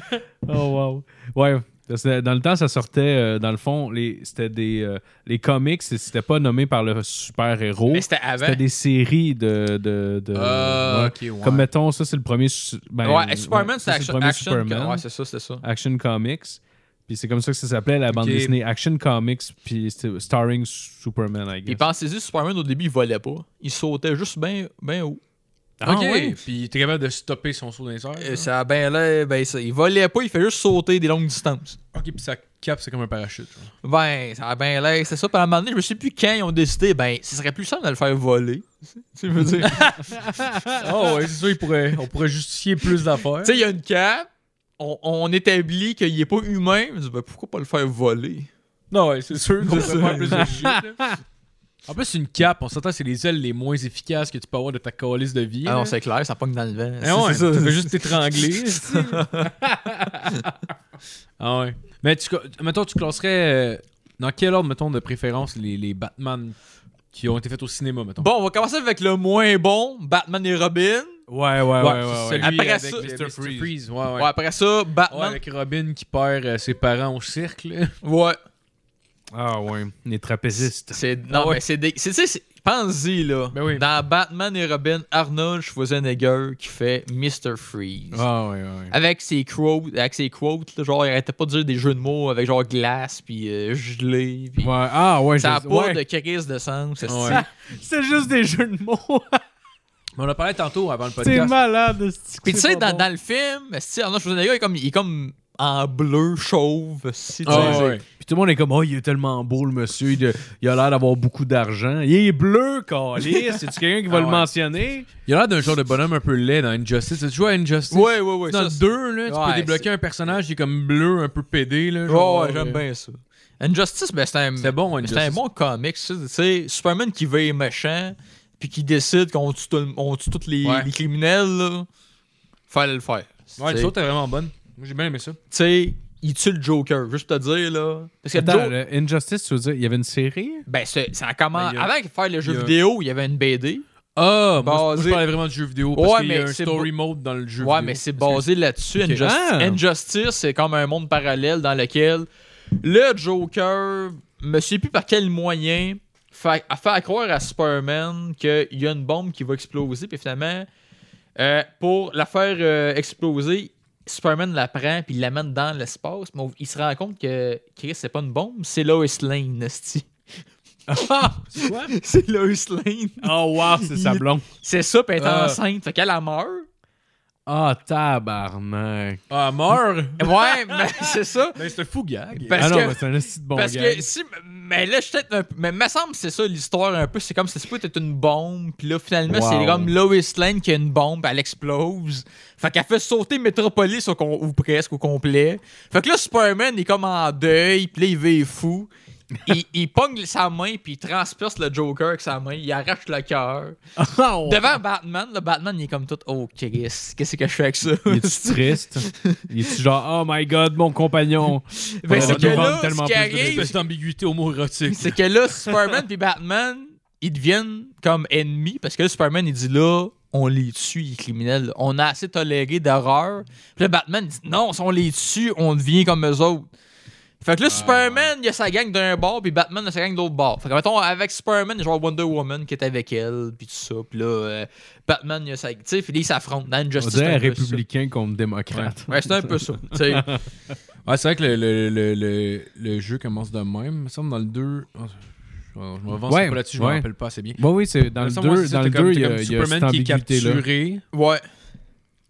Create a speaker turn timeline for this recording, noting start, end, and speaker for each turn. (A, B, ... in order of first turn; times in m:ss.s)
0:00.4-0:15.0 A
0:07.9-0:08.6 B
0:10.3-0:11.7 C
0:13.0-0:15.6 B
0:15.6-0:21.8 A
0:18.1-0:18.5 C
0:21.7-0:25.2 B
0:25.8-0:26.4 A
0:25.8-0:28.5 C
0:28.2-0:31.8 B
0:31.9-0:33.7 C
0:33.8-0:40.2 B
0:39.6-0:40.1 C
0:40.1-0:40.7 A
0:40.8-0:43.6 C
0:43.4-0:44.3 B
0:44.8-0:48.5 B
0:48.9-0:51.1 C
0:49.6-0:50.6 B
0:50.3-0:51.1 A
0:51.9-0:56.0 C
0:55.6-0:59.6 B
0:57.0-0:59.5 C
1:00.2-1:00.5 B
1:01.4-1:06.6 C
1:07.1-1:08.3 C
1:08.2-1:11.2 B
1:11.3-1:13.7 A
1:11.8-1:14.3 C
1:12.4-1:13.1 B
1:14.2-1:15.4 B
1:15.1-1:17.9 C
1:18.0-1:18.4 B
1:19.3-1:21.0 A
1:20.9-1:28.2 B
1:21.3-1:21.6 C
1:23.5-1:23.8 C
1:28.1-1:28.9 A
1:28.9-1:34.7 B
1:34.6-1:36.0 A
1:35.4-1:37.4 B
1:37.0-1:37.4 C
1:37.3-1:39.4 A
1:40.2-1:41.6 C
1:41.2-1:43.1 A
1:42.4-1:48.0 B
1:47.4-1:48.0 C
1:47.5-1:55.1 A
1:54.1-1:54.5 C
1:55.2-2:02.8 C
1:57.9-1:59.8 B
2:02.1-2:11.9 B
2:04.6-2:05.4 C
2:10.6-2:10.9 C
2:12.7-2:13.9 B
2:13.6-2:15.4 C
2:15.5-2:18.7 B
2:18.3-2:20.6 A
2:20.7-2:23.8 B
2:21.5-2:21.9 C
2:22.4-2:22.7 C
2:24.1-2:28.4 C
2:24.6-2:25.3 B
2:25.9-2:26.9 B
2:27.6-2:32.3 B
2:29.0-2:29.2 C
2:29.2-2:29.8 A
2:32.8-2:40.7 B
2:41.4-2:50.1 B
2:50.9-2:56.6 B
2:51.5-2:51.9 C
2:53.2-2:54.4 A
2:55.2-2:55.6 C
2:57.5-2:59.2 A
2:59.3-3:02.9 C
3:00.2-3:01.7 B
3:02.4-3:18.9 B
3:02.5-3:04.1 A
3:09.3-3:09.9 A
3:19.4-3:23.8 B
3:24.0-3:24.6 A
3:24.4-3:29.4 B
3:28.1-3:33.7 A
3:31.7-3:33.7 B
3:32.1-3:32.8 C
3:33.3-3:35.2 C
3:34.9-3:46.7 B
3:47.4-3:57.8 B
3:47.6-3:48.3 C
3:57.0-4:00.4 A
3:59.1-4:00.3 B
4:01.0-4:07.6 C
4:06.3-4:10.6 A
4:08.2-4:11.0 C
4:11.1-4:11.4 B